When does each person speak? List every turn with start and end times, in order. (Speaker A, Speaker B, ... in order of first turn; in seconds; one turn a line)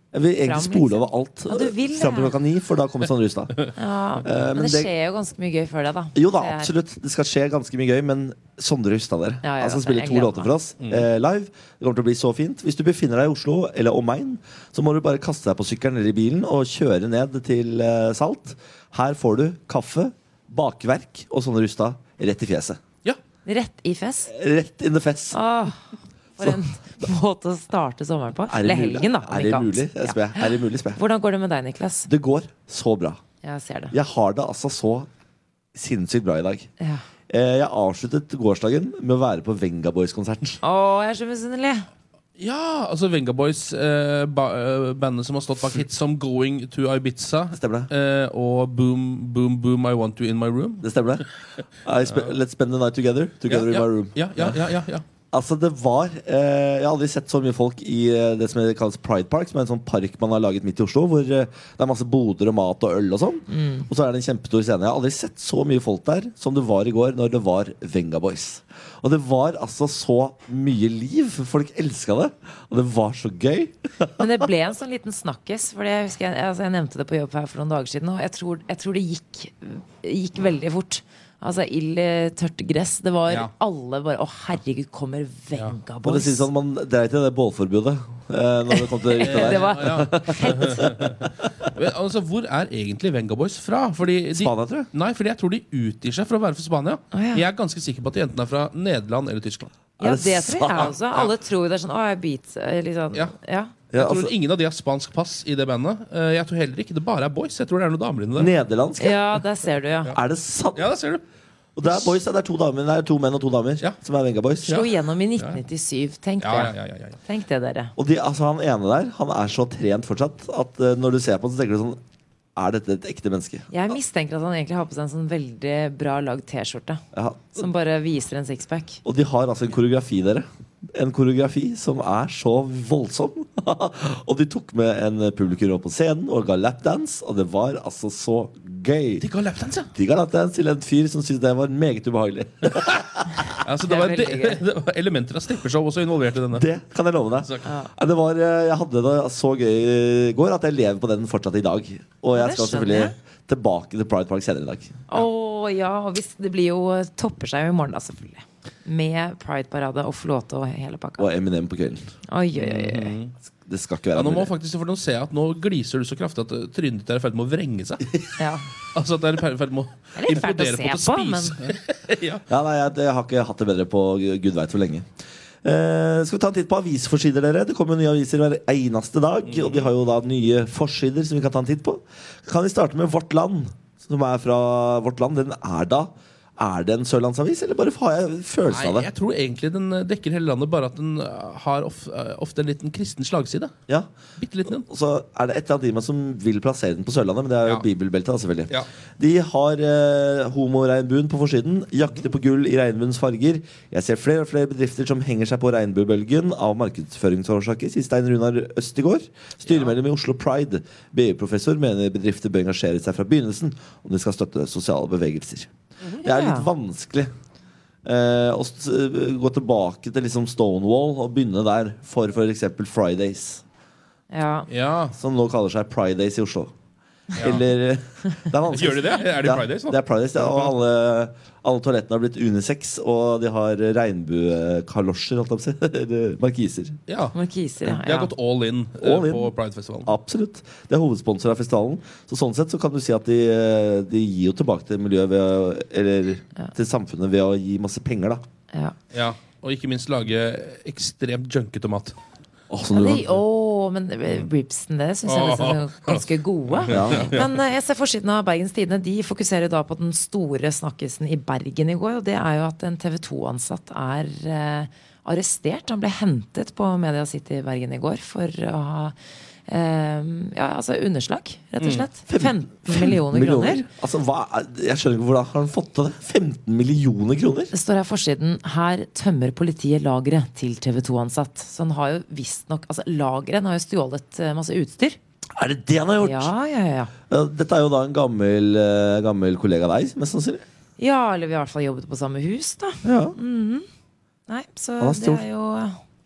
Speaker A: 0.1-3.7
Speaker B: 0.4-2.3
Speaker B: 3.7-6.7
Speaker A: 4.2-4.9
Speaker A: 6.1-22.8
Speaker B: 9.4-10.5
Speaker B: 23.4-24.3
Speaker A: 24.3-25.4
Speaker B: 25.3-25.8
Speaker B: 26.4-32.1
Speaker A: 28.5-31.0
Speaker A: 32.1-33.2
Speaker B: 33.4-33.9
Speaker A: 33.9-35.1
Speaker A: 35.7-36.7
Speaker A: 37.3-40.6
Speaker B: 40.6-41.9
Speaker C: 42.4-50.8
Speaker A: 47.5-47.9
Speaker A: 50.8-51.2
Speaker A: 51.8-54.6
Speaker C: 52.1-52.3
Speaker C: 53.5-55.0
Speaker A: 55.3-74.5
Speaker B: 63.5-63.9
Speaker B: 74.2-86.5
Speaker A: 86.0-91.3
Speaker B: 88.7-90.8
Speaker C: 89.2-99.7
Speaker A: 94.3-94.9
Speaker B: 97.1-97.4
Speaker A: 100.0-100.9
Speaker B: 100.0-103.7
Speaker C: 100.7-101.3
Speaker A: 103.9-104.3
Speaker C: 103.9-108.5
Speaker A: 108.4-109.4
Speaker B: 109.0-110.1
Speaker A: 110.1-110.9
Speaker C: 110.7-111.2
Speaker A: 111.8-114.8
Speaker C: 114.6-115.6
Speaker B: 114.7-116.7
Speaker C: 116.4-117.2
Speaker B: 117.2-117.9
Speaker A: 118.0-122.0
Speaker A: 122.5-123.7
Speaker B: 123.7-127.0
Speaker A: 127.1-127.7
Speaker B: 127.5-129.0
Speaker A: 129.0-139.2
Speaker C: 139.2-139.9
Speaker A: 139.9-143.2
Speaker C: 142.7-143.0
Speaker C: 143.6-146.7
Speaker B: 143.8-144.6
Speaker A: 146.5-155.0
Speaker C: 147.4-147.7
Speaker B: 147.6-147.9
Speaker B: 152.3-153.1
Speaker B: 155.1-161.3
Speaker A: 161.2-162.1
Speaker B: 162.3-163.1
Speaker C: 162.6-163.3
Speaker A: 163.6-164.5
Speaker C: 164.1-168.2
Speaker B: 168.4-168.7
Speaker C: 168.9-172.4
Speaker B: 170.2-171.7
Speaker A: 172.5-175.1
Speaker A: 175.6-189.1
Speaker C: 179.4-179.9
Speaker C: 188.7-193.7
Speaker C: 194.4-194.8
Speaker A: 194.8-215.7
Speaker B: 216.2-216.7
Speaker A: 216.2-217.3
Speaker A: 218.0-223.6
Speaker B: 224.3-224.7
Speaker C: 224.7-225.1
Speaker A: 225.1-226.7
Speaker A: 227.4-236.9
Speaker C: 228.7-230.7
Speaker C: 237.1-240.1
Speaker B: 237.3-238.3
Speaker A: 239.0-239.5
Speaker A: 240.0-248.4
Speaker C: 249.1-252.2
Speaker A: 252.7-253.2
Speaker B: 252.9-269.1
Speaker C: 255.2-257.5
Speaker A: 256.9-257.4
Speaker B: 269.7-273.9
Speaker C: 271.8-272.1
Speaker A: 272.3-277.7
Speaker B: 277.7-285.2
Speaker A: 285.6-286.5
Speaker B: 286.2-287.1
Speaker A: 287.3-290.6
Speaker B: 291.0-293.9
Speaker A: 293.0-293.4
Speaker B: 294.5-296.0
Speaker A: 295.0-295.4